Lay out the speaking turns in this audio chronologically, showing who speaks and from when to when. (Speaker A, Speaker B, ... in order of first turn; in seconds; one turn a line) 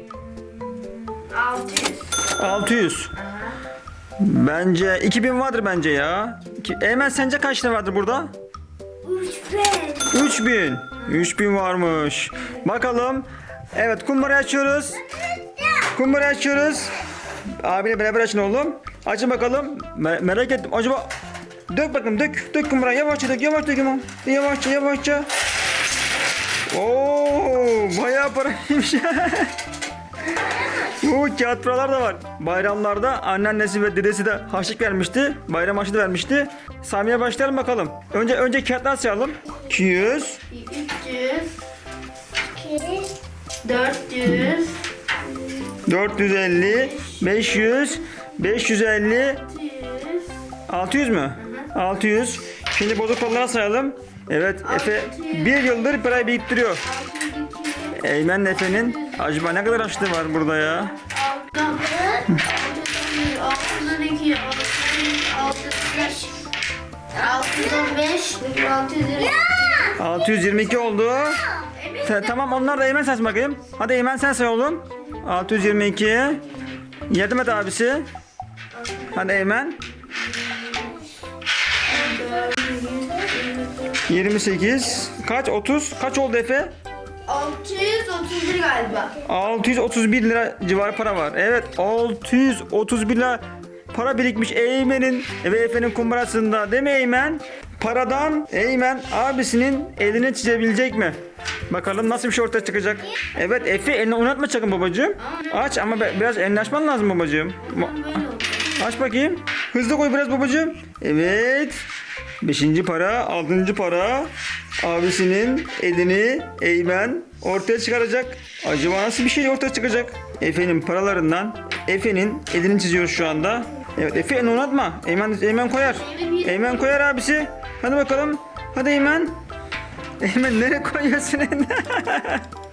Speaker A: 0.6-2.1
Speaker B: 2.4-3.1
Speaker B: 4.2-8.3
Speaker A: 9.0-10.1
Speaker B: 10.1-15.0
Speaker B: 15.8-16.9
Speaker B: 17.6-21.1
Speaker B: 21.7-25.3
Speaker B: 26.7-29.5
Speaker B: 30.8-40.4
Speaker A: 40.5-41.6
Speaker A: 42.6-44.8
Speaker B: 45.8-49.4
Speaker A: 46.6-47.2
Speaker A: 49.3-50.4
Speaker B: 50.7-56.8
Speaker A: 54.6-55.6
Speaker A: 56.8-59.2
Speaker B: 57.9-61.0
Speaker A: 60.9-66.4
Speaker A: 67.1-69.9
Speaker B: 69.9-71.5
Speaker A: 71.6-72.5
Speaker B: 72.0-76.4
Speaker B: 77.1-78.1
Speaker B: 79.1-79.8
Speaker A: 80.3-81.0
Speaker A: 81.8-84.0
Speaker B: 84.1-86.7
Speaker A: 87.2-89.2
Speaker B: 89.2-101.2
Speaker B: 101.7-108.2
Speaker A: 105.2-105.6
Speaker A: 107.6-108.8
Speaker B: 108.7-111.8
Speaker B: 112.4-114.3
Speaker B: 114.8-129.3
Speaker A: 125.8-126.9
Speaker B: 130.2-132.4